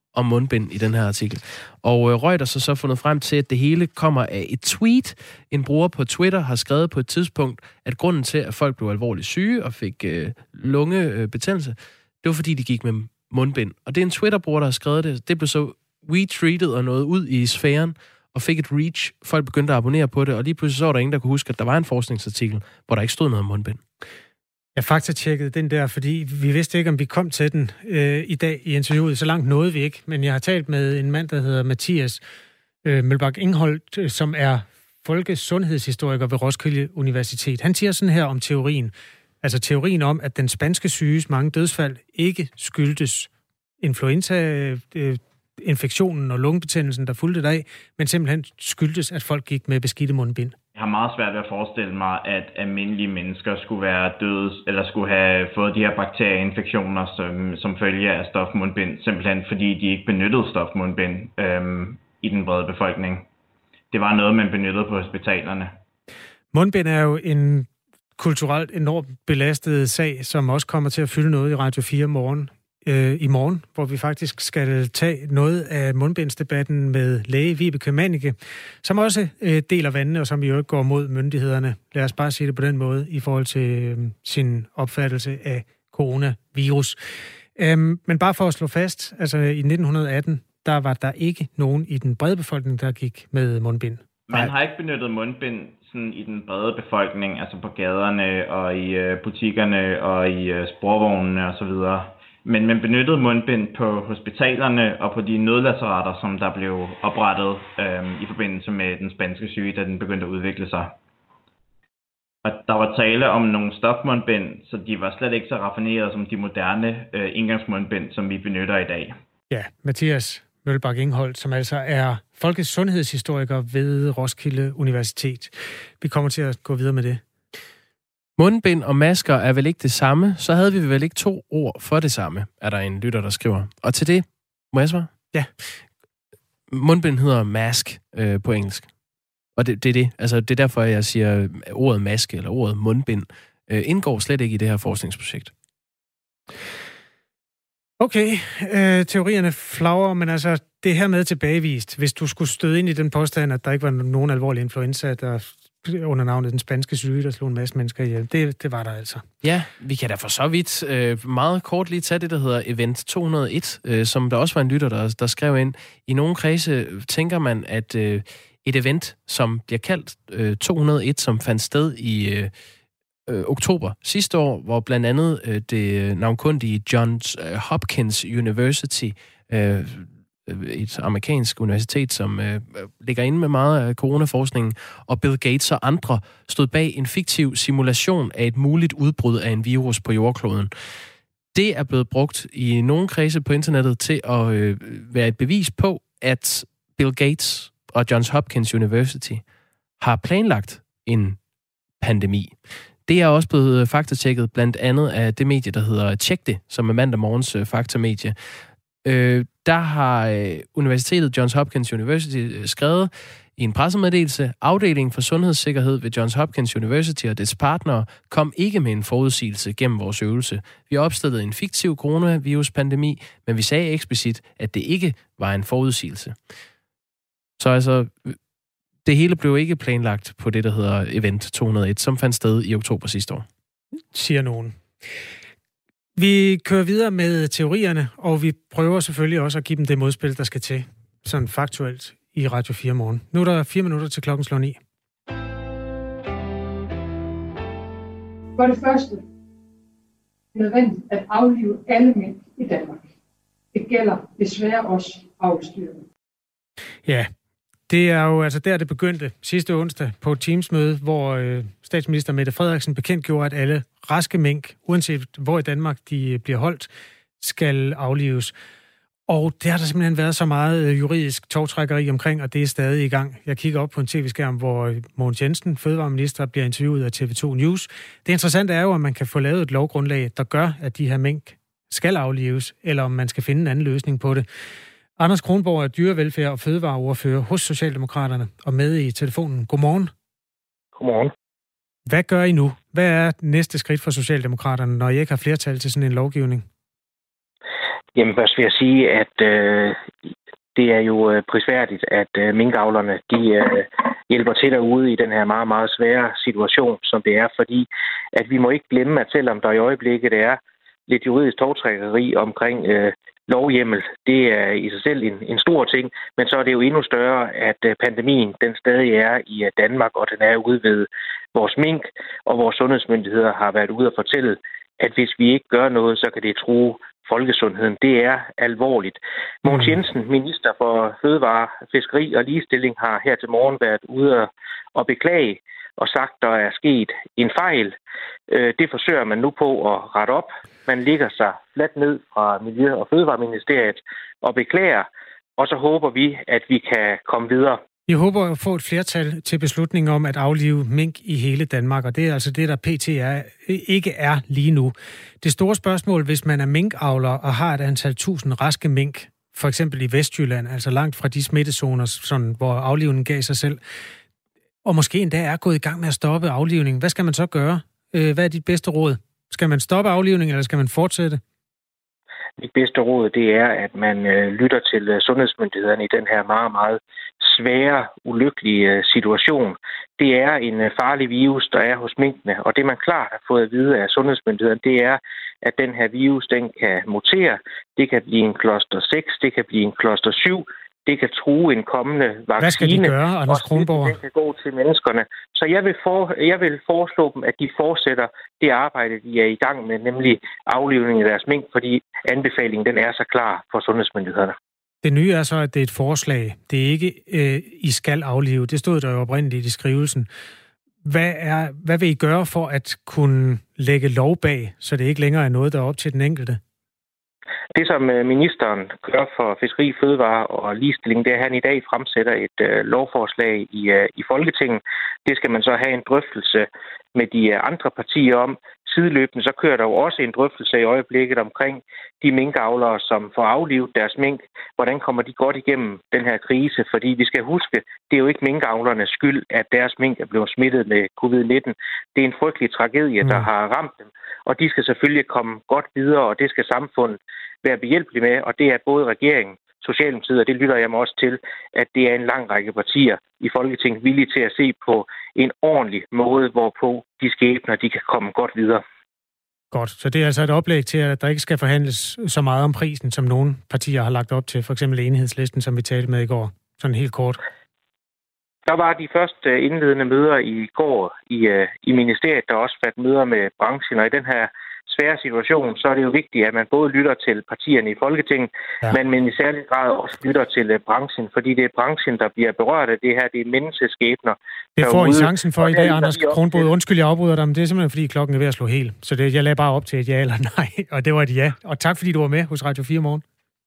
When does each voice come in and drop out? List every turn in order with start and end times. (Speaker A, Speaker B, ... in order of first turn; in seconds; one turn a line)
Speaker A: 0.1-23.8
Speaker B: 24.8-32.2
Speaker B: 32.8-43.3
Speaker B: 43.8-50.5
Speaker C: 50.8-63.3
Speaker C: 63.9-65.7
Speaker B: 66.5-87.0
Speaker B: 87.5-94.5
Speaker C: 94.3-111.0
Speaker C: 112.5-119.2
Speaker B: 119.5-127.2
Speaker A: 128.4-135.1
Speaker A: 136.7-138.9
Speaker A: 139.6-145.5
Speaker B: 148.0-159.3
Speaker A: 159.4-172.5
Speaker A: 173.3-190.7
Speaker A: 191.5-199.4
Speaker A: 200.0-201.4
Speaker A: 202.0-208.4
Speaker A: 209.0-226.4
Speaker A: 227.6-228.4
Speaker A: 229.1-233.4
Speaker B: 234.1-234.8
Speaker B: 236.2-244.8
Speaker D: 248.6-249.2
Speaker D: 250.5-253.0
Speaker D: 253.7-256.0
Speaker B: 257.1-257.3
Speaker B: 257.9-266.9
Speaker B: 267.4-268.5
Speaker B: 269.3-284.4
Speaker B: 285.2-290.1
Speaker E: 290.9-291.3
Speaker B: 292.1-296.6
Speaker E: 298.2-300.0
Speaker E: 300.8-337.9
Speaker E: 338.5-347.8
Speaker B: 348.1-363.8
Speaker B: 364.8-371.4
Speaker E: 372.6-404.6
Speaker B: 392.6-394.2
Speaker B: 405.0-410.3
Speaker B: 411.0-416.6
Speaker E: 417.7-458.8
Speaker B: 459.7-467.4
Speaker E: 468.7-486.7
Speaker B: 484.8-493.2